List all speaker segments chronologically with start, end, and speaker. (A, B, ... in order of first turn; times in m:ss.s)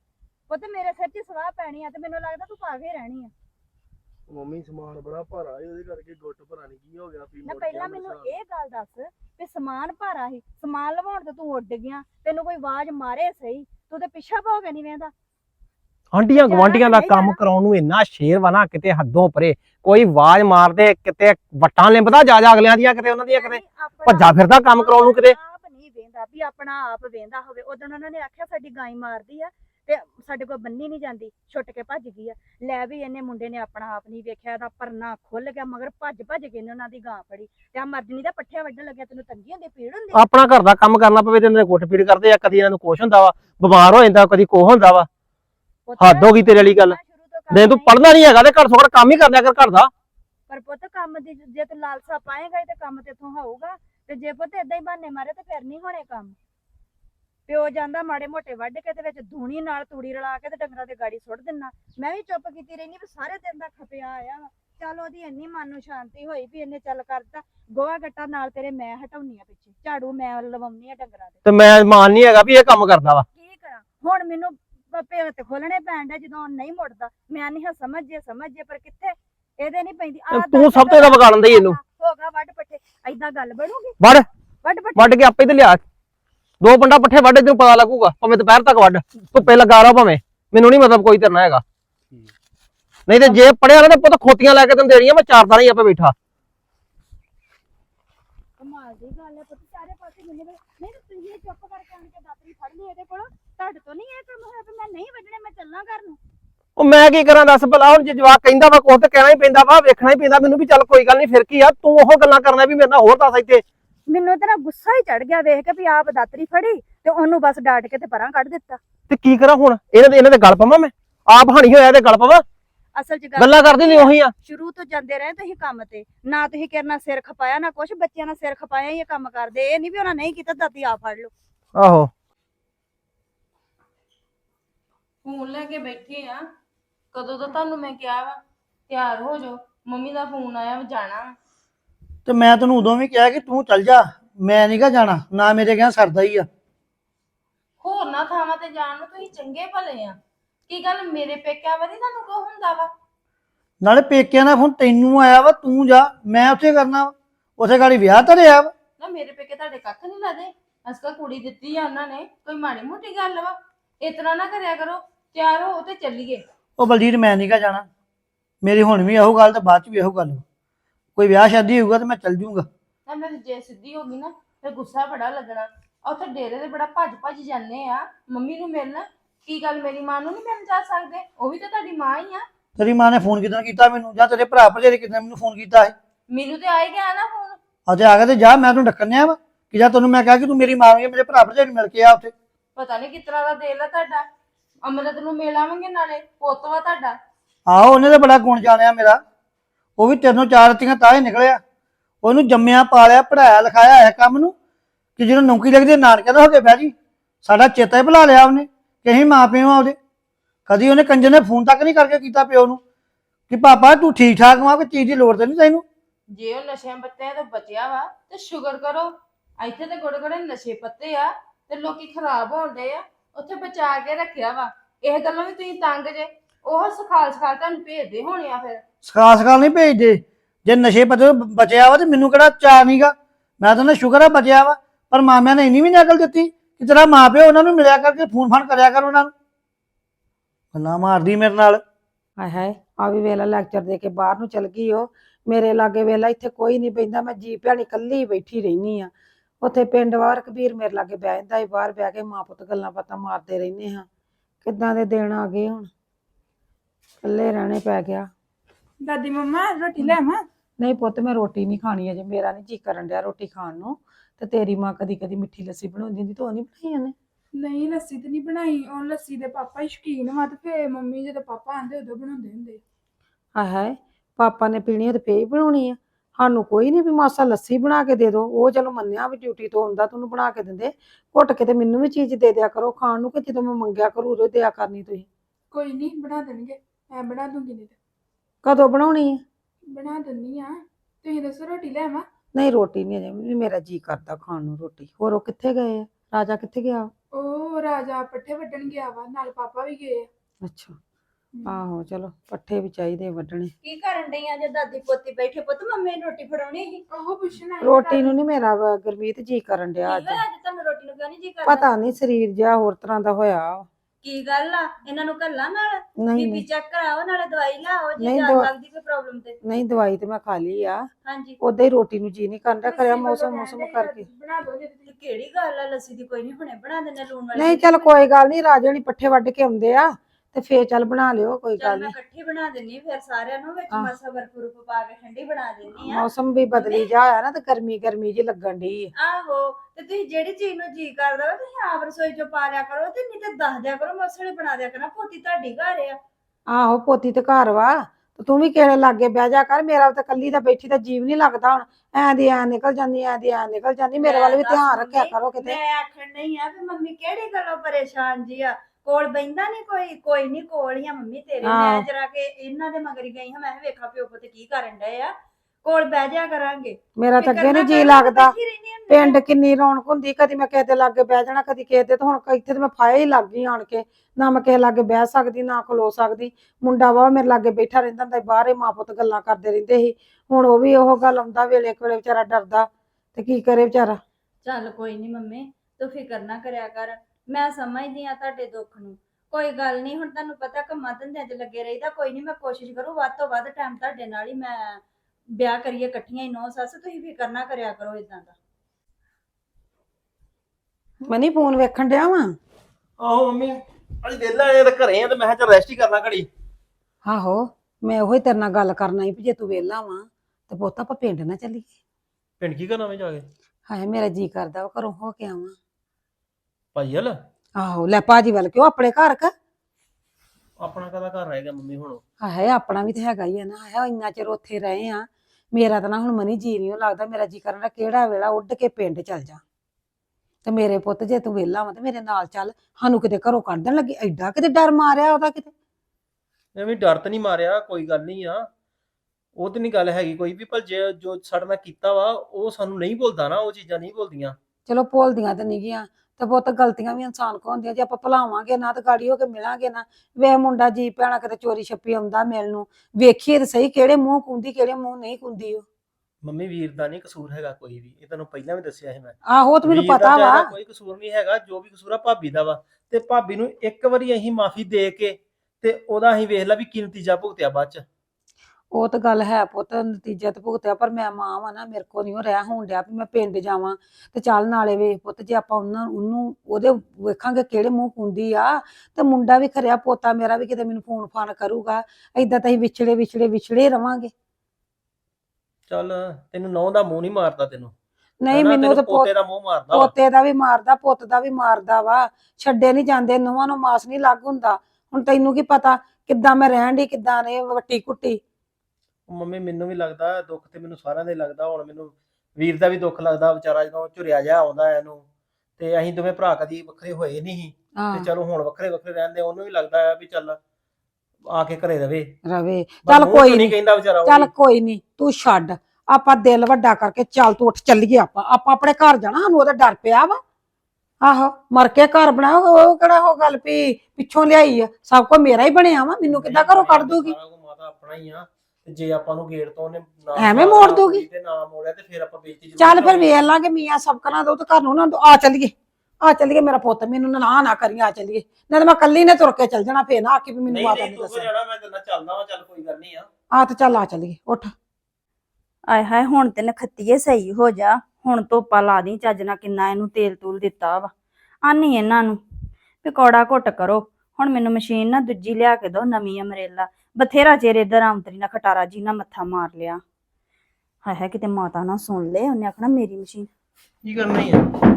0:00.5-0:03.3 A
0:04.3-0:08.3 B
0:07.4-0:15.1 A
0:16.1-0:25.4 C
0:16.4-0:17.4 A
0:23.3-0:40.2 A
0:40.1-0:45.1 C
0:45.9-0:48.0 A
0:46.0-0:47.0 C
0:47.5-0:49.9 C
0:50.5-0:56.3 A
0:57.5-1:11.4 A
1:11.4-1:13.2 C
1:13.3-1:24.0 A
1:20.3-1:21.8 C
1:24.0-1:24.3 C
1:24.6-1:25.2 A
1:25.0-1:25.8 C
1:26.6-1:31.6 C
1:33.1-1:36.1 C
1:38.6-1:46.2 A
1:46.8-1:53.6 C
1:54.1-1:58.8 A
1:59.1-2:02.4 C
2:02.9-2:11.3 A
2:03.4-2:04.3 C
2:11.7-2:12.1 C
2:15.2-2:16.4 D
2:17.1-2:21.4 D
2:22.2-2:26.5 E
2:27.8-2:30.2 D
2:30.7-2:32.9 D
2:33.8-2:38.7 E
2:39.0-2:46.4 D
2:46.8-2:47.8 E
2:48.6-2:50.4 E
2:51.2-2:52.7 E
2:53.0-3:02.4 D
3:02.8-3:05.9 E
3:06.3-3:07.6 D
3:07.9-3:12.3 E
3:12.8-3:14.2 D
3:14.8-3:17.2 D
3:17.7-3:19.2 E
3:20.0-3:21.6 E
3:22.2-3:24.5 E
3:25.2-3:26.9 E
3:27.4-3:30.0 E
3:30.7-3:32.8 E
3:33.5-3:35.8 E
3:36.3-3:48.8 D
3:49.0-3:59.3 E
4:00.7-4:01.8 E
4:02.4-4:09.1 F
4:09.6-4:14.0 F
4:14.6-4:15.9 F
4:17.2-4:18.3 F
4:19.0-4:20.4 G
4:20.8-4:27.1 F
4:27.5-4:32.8 G
4:33.6-4:45.3 F
4:45.7-4:47.9 G
4:48.6-4:49.4 F
4:49.9-4:52.2 G
4:52.5-4:57.1 F
4:57.3-5:00.3 G
5:00.6-5:01.0 F
5:01.6-5:03.7 F
5:03.8-5:07.0 A
5:07.1-5:08.3 G
5:07.8-5:10.4 F
5:10.0-5:11.8 A
5:11.6-5:13.8 F
5:14.2-5:19.6 A
5:16.2-5:16.6 F
5:18.2-5:18.7 F
5:19.6-5:21.0 F
5:21.2-5:21.6 A
5:21.6-5:24.2 F
5:22.8-5:25.1 G
5:25.0-5:28.1 A
5:27.5-5:32.1 F
5:31.8-5:37.1 A
5:35.9-5:39.1 F
5:39.2-5:46.2 A
5:46.7-5:55.8 F
5:54.2-6:05.3 A
6:01.6-6:02.0 F
6:05.8-6:09.4 A
6:07.2-6:08.5 F
6:09.1-6:24.2 F
6:24.6-6:35.0 A
6:35.5-6:38.5 A
6:41.2-6:42.5 F
6:43.2-6:46.5 C
6:47.2-6:51.9 F
6:52.6-6:53.5 C
6:53.9-6:55.7 F
6:56.9-6:57.3 C
6:57.8-6:59.5 F
7:00.8-7:02.2 C
7:02.4-7:09.6 F
7:10.6-7:15.7 F
7:16.8-7:18.6 C
7:19.6-7:24.6 C
7:24.9-7:35.8 F
7:36.4-7:48.0 C
7:39.4-7:40.7 F
7:48.9-8:04.3 F
8:05.9-8:07.9 C
8:08.4-8:09.3 F
8:08.5-8:10.1 C
8:09.9-8:18.4 F
8:19.3-8:25.2 C
8:25.8-8:30.6 C
8:28.0-8:28.3 F
8:31.4-8:32.3 C
8:32.4-8:40.4 F
8:33.0-8:34.5 C
8:41.2-8:47.3 F
8:46.2-8:53.5 C
8:50.3-8:51.2 F
8:52.8-9:01.5 F
9:00.7-9:03.3 C
9:03.5-9:04.7 F
9:05.9-9:11.1 A
9:11.6-9:12.4 A
9:13.0-9:20.0 A
9:21.0-9:23.5 A
9:24.0-9:24.7 C